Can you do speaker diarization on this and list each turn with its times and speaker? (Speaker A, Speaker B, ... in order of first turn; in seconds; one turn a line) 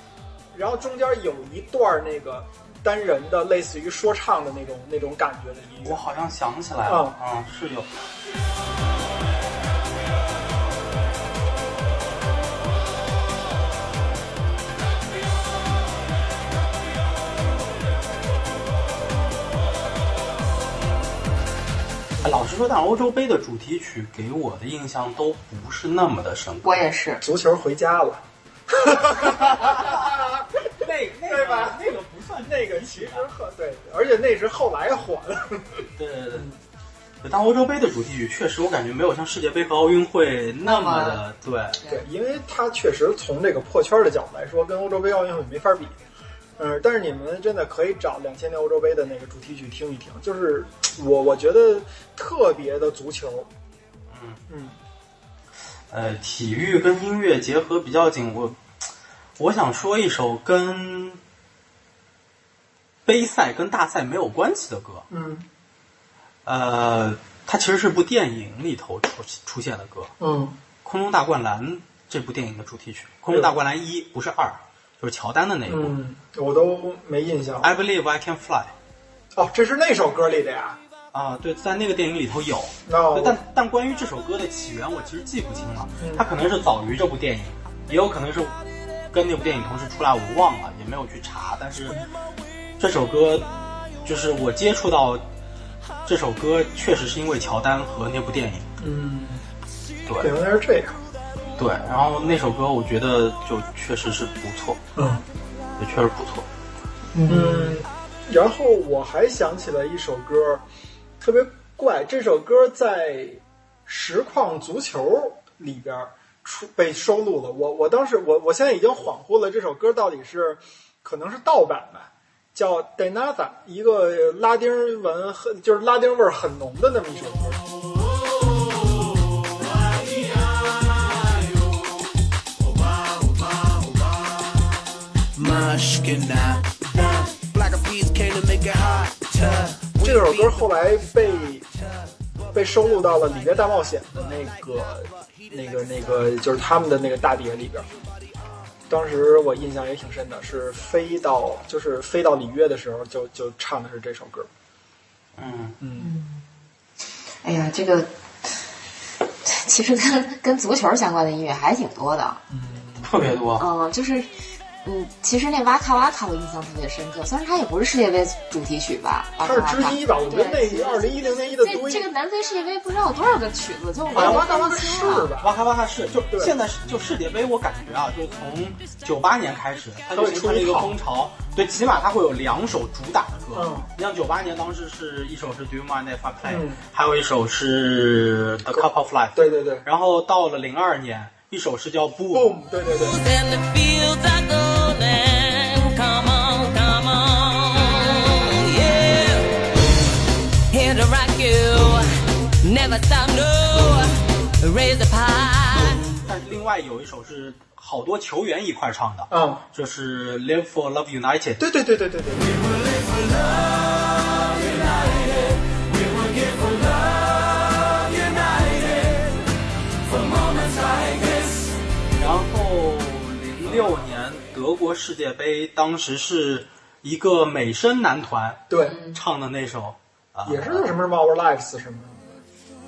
Speaker A: 0.5-6.0
Speaker B: 5.8-7.9
Speaker A: 6.9-7.2
Speaker B: 22.2-26.8
Speaker C: 26.6-27.2
Speaker A: 27.2-30.5
Speaker B: 29.2-30.2
Speaker B: 30.7-33.3
Speaker A: 31.3-31.9
Speaker A: 32.4-36.6
Speaker B: 36.0-36.5
Speaker B: 37.2-41.8
Speaker C: 40.6-41.2
Speaker C: 41.8-42.0
Speaker A: 41.9-46.0
Speaker A: 46.6-53.5
Speaker B: 54.1-54.4
Speaker A: 54.5-54.8
Speaker B: 55.9-58.6
Speaker B: 59.4-61.2
Speaker B: 63.1-65.0
Speaker A: 65.1-65.5
Speaker B: 66.5-70.1
Speaker A: 70.2-70.6
Speaker B: 70.8-76.0
Speaker A: 75.7-77.7
Speaker B: 77.6-78.7
Speaker A: 79.3-80.8
Speaker B: 81.1-88.5
Speaker A: 82.9-83.4
Speaker A: 86.0-86.3
Speaker B: 89.1-92.0
Speaker B: 92.8-93.5
Speaker B: 94.0-95.2
Speaker B: 96.1-98.7
Speaker A: 98.8-99.4
Speaker B: 100.0-100.3
Speaker A: 100.2-101.0
Speaker B: 101.6-104.8
Speaker A: 105.0-105.2
Speaker B: 105.8-106.5
Speaker C: 107.2-107.7
Speaker A: 107.2-110.6
Speaker A: 111.2-127.6
Speaker D: 129.8-131.7
Speaker D: 132.8-134.4
Speaker D: 135.3-140.6
Speaker A: 140.0-141.7
Speaker A: 142.5-147.9
Speaker A: 148.9-154.5
Speaker B: 155.4-155.8
Speaker A: 155.8-156.1
Speaker C: 156.0-156.4
Speaker C: 157.4-158.6
Speaker C: 159.4-162.4
Speaker A: 162.5-163.1
Speaker B: 163.0-163.6
Speaker C: 163.6-164.3
Speaker C: 164.8-175.3
Speaker A: 169.4-172.1
Speaker A: 174.1-175.5
Speaker B: 174.1-174.4
Speaker B: 175.4-192.5
Speaker A: 180.1-181.0
Speaker A: 183.5-183.9
Speaker A: 186.4-186.8
Speaker A: 188.7-189.9
Speaker A: 192.3-193.2
Speaker E: 192.9-199.7
Speaker E: 200.7-206.0
Speaker B: 205.8-211.6
Speaker A: 209.3-209.6
Speaker A: 211.6-212.7
Speaker B: 222.2-230.9
Speaker A: 228.7-229.0
Speaker C: 228.8-229.2
Speaker A: 230.4-232.4